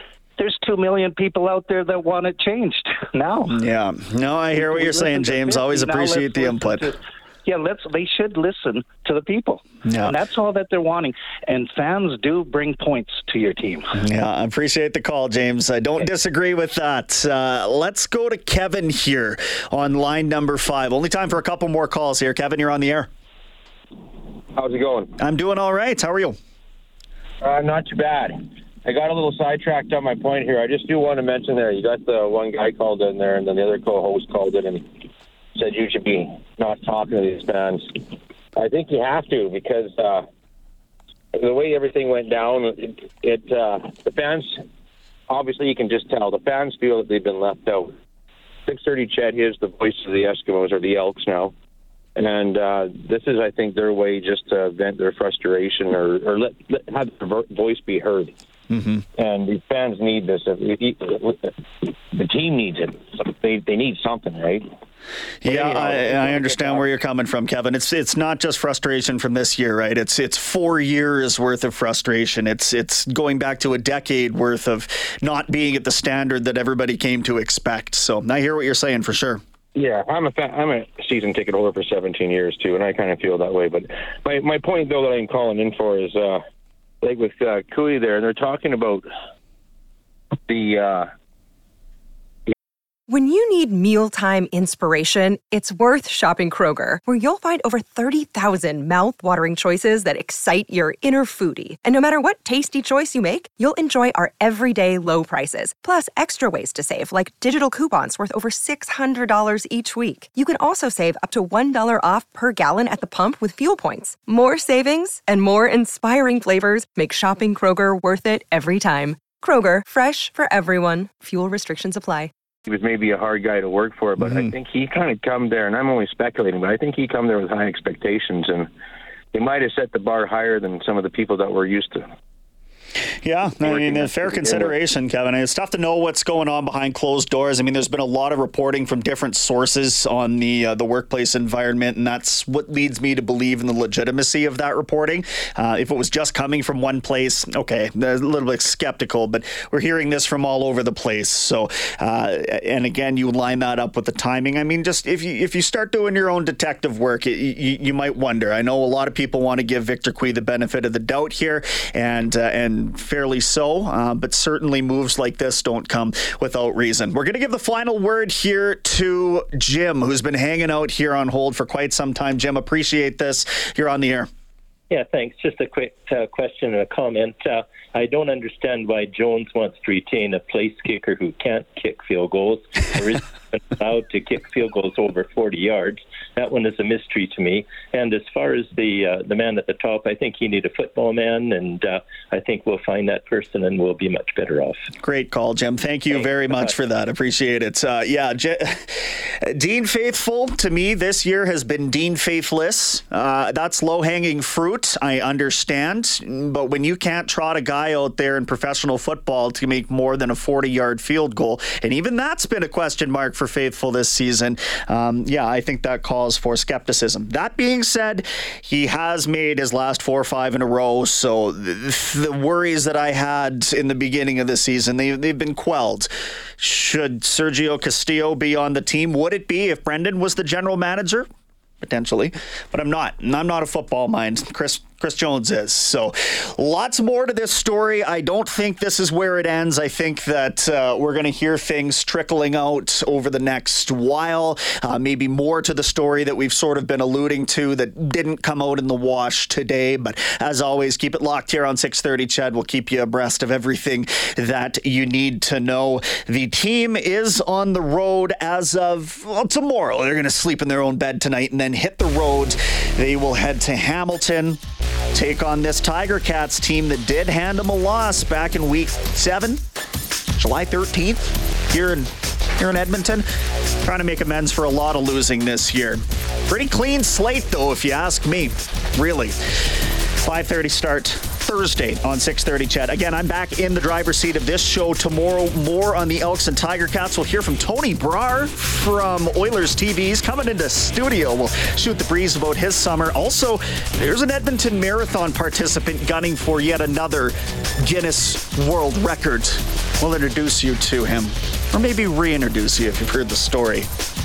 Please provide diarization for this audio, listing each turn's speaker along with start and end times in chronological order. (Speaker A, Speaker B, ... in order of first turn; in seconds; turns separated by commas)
Speaker A: 0.4-3.6, Speaker B: 3.5-6.9, Speaker A: 4.6-13.9, Speaker B: 9.8-10.2, Speaker B: 13.9-23.1, Speaker C: 24.5-25.1, Speaker B: 25.2-26.4, Speaker C: 27.4-40.3, Speaker C: 41.3-44.6, Speaker C: 45.3-47.9, Speaker C: 48.6-51.5, Speaker C: 52.1-58.4, Speaker B: 58.7-59.0, Speaker C: 59.1-64.7, Speaker B: 65.4-79.4, Speaker C: 65.4-66.9, Speaker C: 79.7-86.4, Speaker C: 87.0-89.1, Speaker C: 90.4-91.1, Speaker D: 93.1-122.3, Speaker C: 122.7-128.7, Speaker C: 129.3-132.1, Speaker B: 133.2-174.3, Speaker C: 133.5-134.8, Speaker E: 174.9-194.8, Speaker B: 195.0-231.3, Speaker E: 196.1-196.7, Speaker B: 231.8-264.6, Speaker B: 265.1-269.6, Speaker B: 270.4-273.2, Speaker B: 273.8-303.9